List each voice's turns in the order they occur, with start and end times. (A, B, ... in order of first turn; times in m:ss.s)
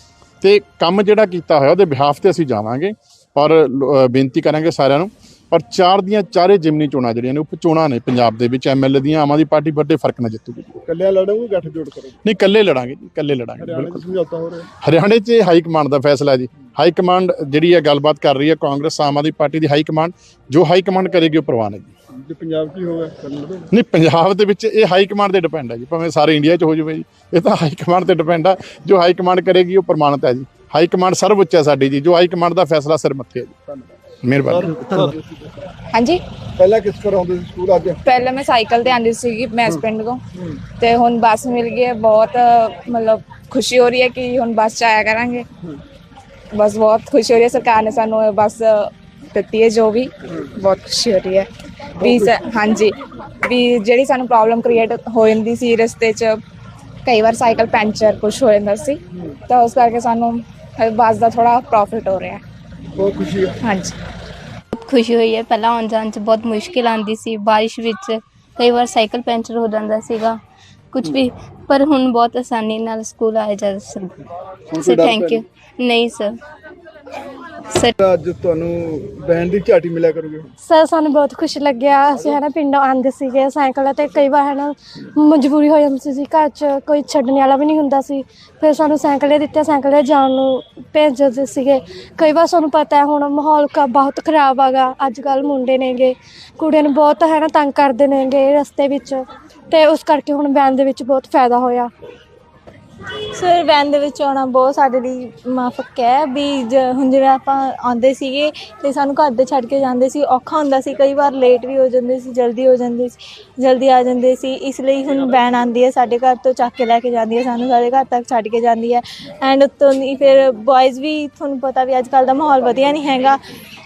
0:00.4-0:10.8 A
0:10.9-0:12.2 B
0:12.2-0:14.1 A
0:13.6-0:14.7 B
0:14.8-0:21.9 A
0:22.1-0:23.7 B
0:23.7-0:33.6 A
0:34.2-0:34.7 A
0:34.4-0:35.5 B
0:35.9-0:36.2 C
0:36.6-0:38.0 B
0:38.0-0:40.2 C
0:40.8-0:45.5 C
0:46.5-0:56.4 C
0:57.0-1:02.4 C
1:03.0-1:03.6 B
1:03.6-1:04.0 C
1:04.8-1:10.4 D
1:10.9-1:14.1 D
1:14.7-1:15.4 B
1:14.8-1:16.4 D
1:18.0-1:20.5 B
1:20.6-1:41.9 E
1:43.4-2:03.4 F